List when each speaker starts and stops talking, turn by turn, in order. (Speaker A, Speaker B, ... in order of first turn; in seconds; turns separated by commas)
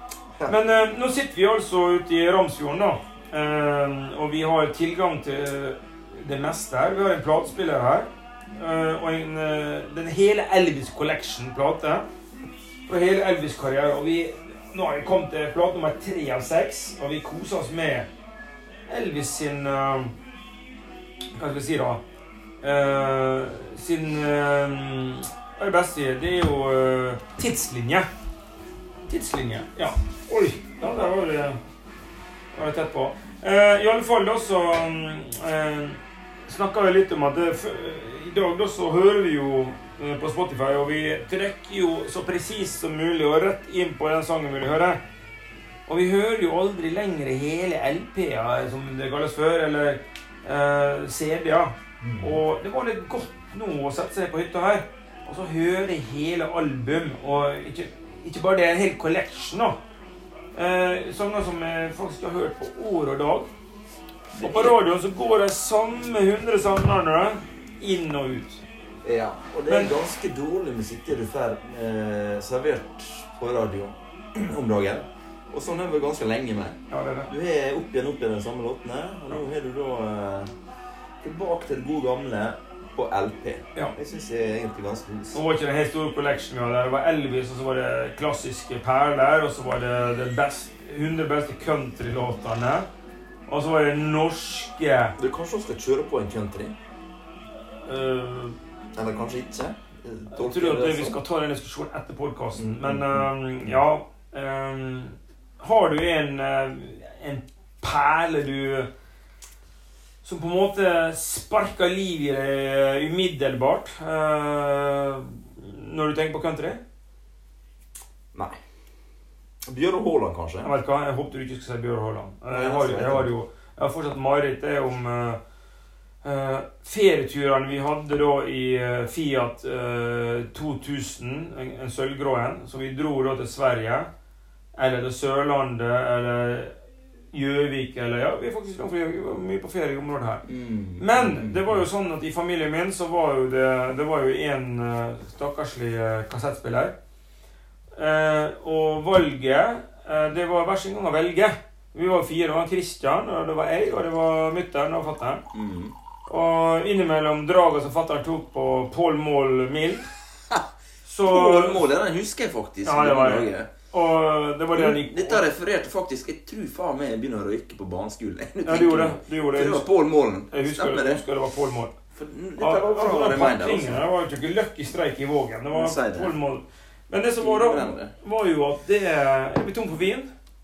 Speaker A: 0.5-12.1, Speaker A: 12.9-18.1, Speaker A: 18.9-20.1, Speaker A: 21.4-22.0, Speaker A: 22.6-28.1, Speaker A: 29.1-31.6, Speaker A: 32.5-45.0, Speaker A: 45.9-59.8, Speaker B: 52.0-52.4, Speaker A: 60.6-63.5, Speaker B: 64.3-64.8, Speaker A: 64.4-68.6, Speaker B: 69.0-80.5, Speaker A: 69.7-69.9, Speaker A: 76.9-77.3, Speaker B: 81.2-85.4, Speaker A: 85.3-92.9, Speaker A: 93.5-95.2, Speaker B: 95.2-96.8, Speaker A: 97.8-98.6, Speaker B: 98.9-101.2, Speaker A: 100.3-108.9, Speaker B: 102.5-103.8, Speaker A: 110.2-116.8, Speaker B: 119.7-120.7, Speaker A: 120.6-125.4, Speaker B: 122.5-123.3, Speaker A: 126.2-134.1, Speaker A: 134.8-136.8, Speaker A: 137.3-140.4, Speaker B: 140.5-141.9, Speaker A: 141.0-146.9, Speaker A: 148.0-155.4, Speaker B: 155.5-155.9, Speaker A: 156.3-160.1, Speaker A: 161.1-161.9, Speaker B: 161.2-163.7, Speaker A: 162.8-165.4, Speaker B: 164.7-171.2, Speaker A: 168.7-169.9, Speaker A: 170.5-171.9, Speaker B: 172.2-174.1, Speaker A: 172.6-180.3, Speaker B: 175.7-176.4, Speaker B: 177.4-178.1